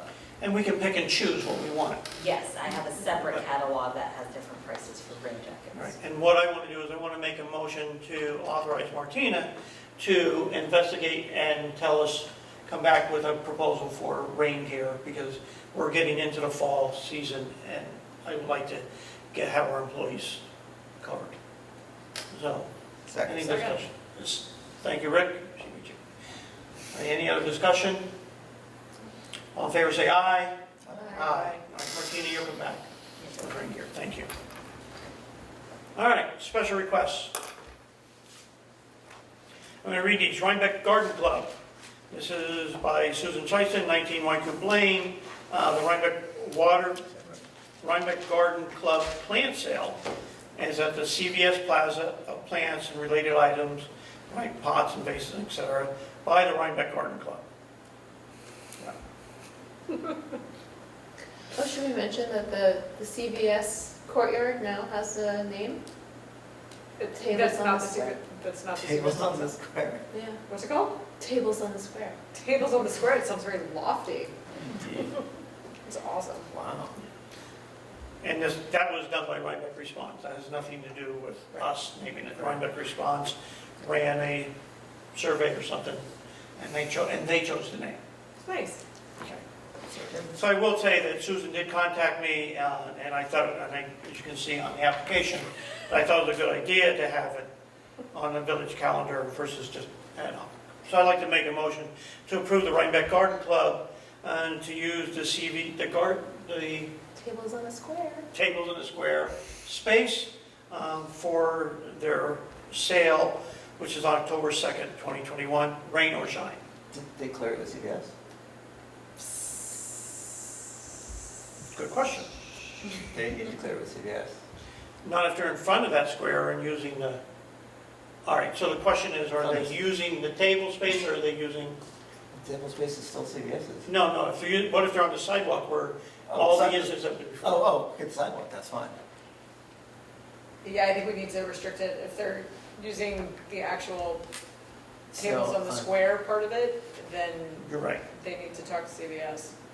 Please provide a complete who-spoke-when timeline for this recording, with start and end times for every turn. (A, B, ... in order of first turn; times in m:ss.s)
0:00.4-0:02.0 A
0:02.2-0:05.9 B
0:03.2-0:03.4 A
0:05.7-0:20.4 A
0:21.0-0:21.4 A
0:22.3-0:22.7 A
0:23.1-0:23.5 C
0:23.2-0:26.0 A
0:23.5-0:23.8 D
0:26.9-0:28.1 A
0:29.5-0:30.6 A
0:30.8-0:31.2 C
0:31.1-0:34.3 A
0:31.2-0:31.6 D
0:35.9-0:37.3 A
0:39.8-0:41.5 A
0:42.1-0:47.0 A
0:47.8-0:50.0 A
0:50.6-0:57.4 A
1:01.5-1:05.8 E
1:07.0-1:09.6 D
1:07.1-1:08.2 E
1:08.8-1:10.0 C
1:10.1-1:10.4 E
1:10.4-1:11.0 D
1:11.2-1:12.2 E
1:12.3-1:14.3 D
1:14.6-1:15.1 C
1:15.8-1:16.5 D
1:16.5-1:17.0 C
1:18.2-1:24.5 A
1:25.1-1:26.0 A
1:26.6-1:28.0 A
1:28.4-1:28.8 D
1:29.9-1:30.3 C
1:30.3-1:37.5 A
1:38.1-1:46.9 A
1:47.2-1:48.3 E
1:48.3-1:56.6 A
1:56.9-1:58.1 C
2:01.7-2:02.3 A
2:02.9-2:04.4 C
2:05.0-2:07.2 A
2:08.2-2:11.8 A
2:09.4-2:09.7 C
2:12.3-2:13.9 C
2:13.8-2:17.7 A
2:16.3-2:19.0 C
2:20.6-2:24.2 D
2:25.1-2:29.5 D
2:25.1-2:25.9 C
2:27.6-2:28.0 A